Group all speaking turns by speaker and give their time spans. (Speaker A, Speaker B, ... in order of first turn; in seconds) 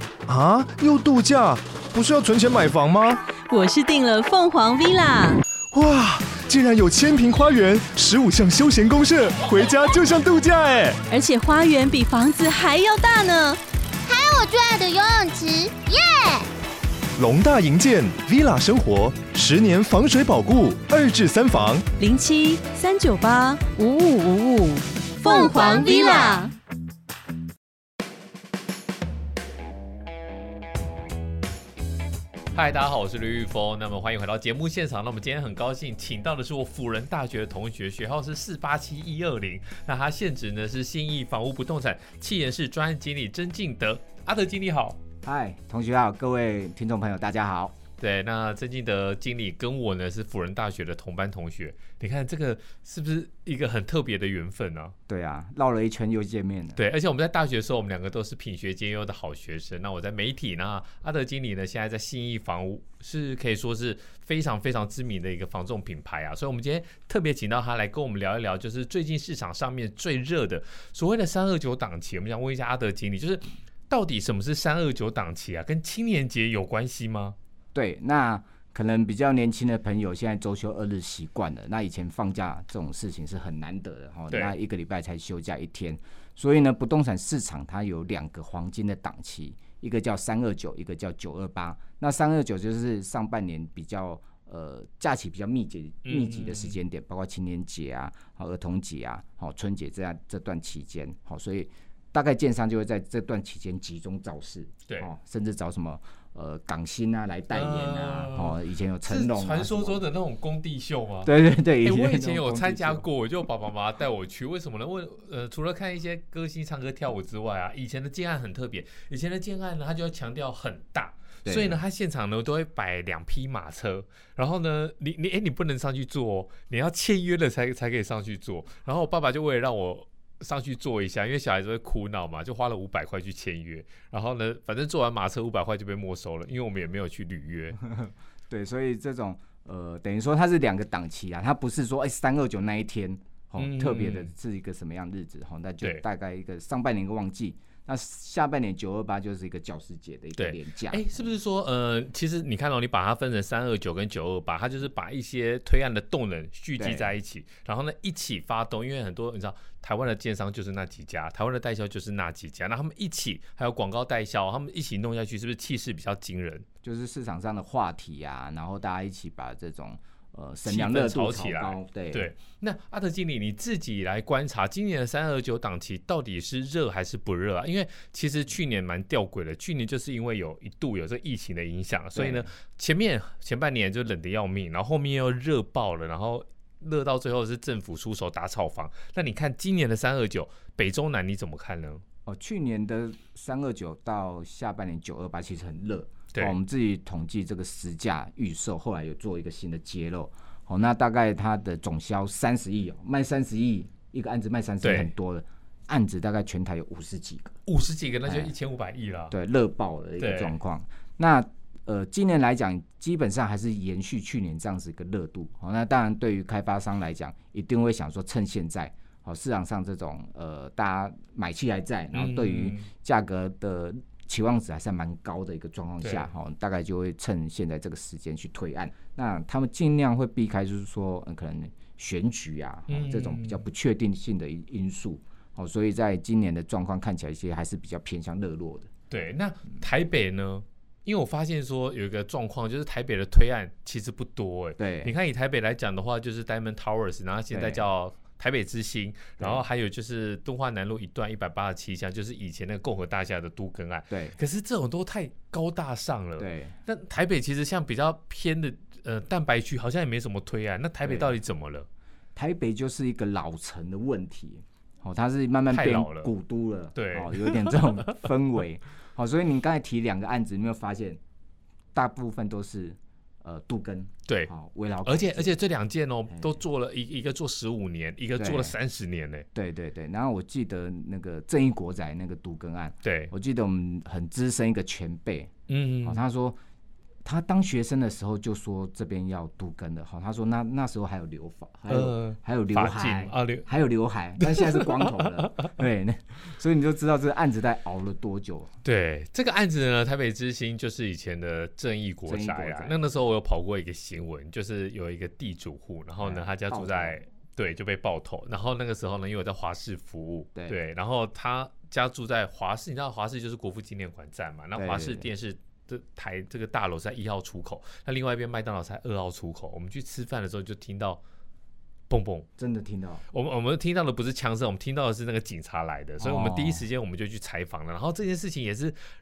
Speaker A: 0.3-3.2, 5.7-11.0, 17.2-21.9
Speaker B: 3.5-5.4, 11.1-13.6, 22.0-26.5
Speaker C: 14.1-16.5, 25.2-26.5
Speaker D: 32.5-45.0, 48.0-54.9, 56.8-77.3, 96.0-96.8, 107.5-137.8, 143.6-144.3, 150.4-166.7, 170.7-192.0, 204.8-205.1, 207.7-209.3, 210.2-210.5, 222.1-222.9, 226.0-226.3, 232.9-233.6, 239.1-261.9, 265.7-266.3, 266.9-268.1, 275.0-279.5, 283.0-283.3, 285.7-286.2, 291.9-293.7, 294.4-295.6, 298.8-321.2, 322.1-322.5, 323.3-329.0
Speaker E: 45.2-47.8, 55.1-56.8, 77.7-110.0, 111.2-113.1, 121.4-121.8, 137.8-151.3, 156.8-157.1, 166.8-172.3, 182.1-182.4, 192.2-207.6, 208.2-208.5, 209.3-238.9, 244.8-245.1, 247.5-247.8, 249.4-249.6, 254.1-254.4, 256.4-256.8, 261.0-261.3, 262.4-271.2, 271.9-275.5, 278.4-278.7, 279.5-285.5, 286.0-286.6, 287.2-298.7, 302.2-303.0, 306.2-307.2, 314.8-315.3, 322.6-323.2, 326.2-326.9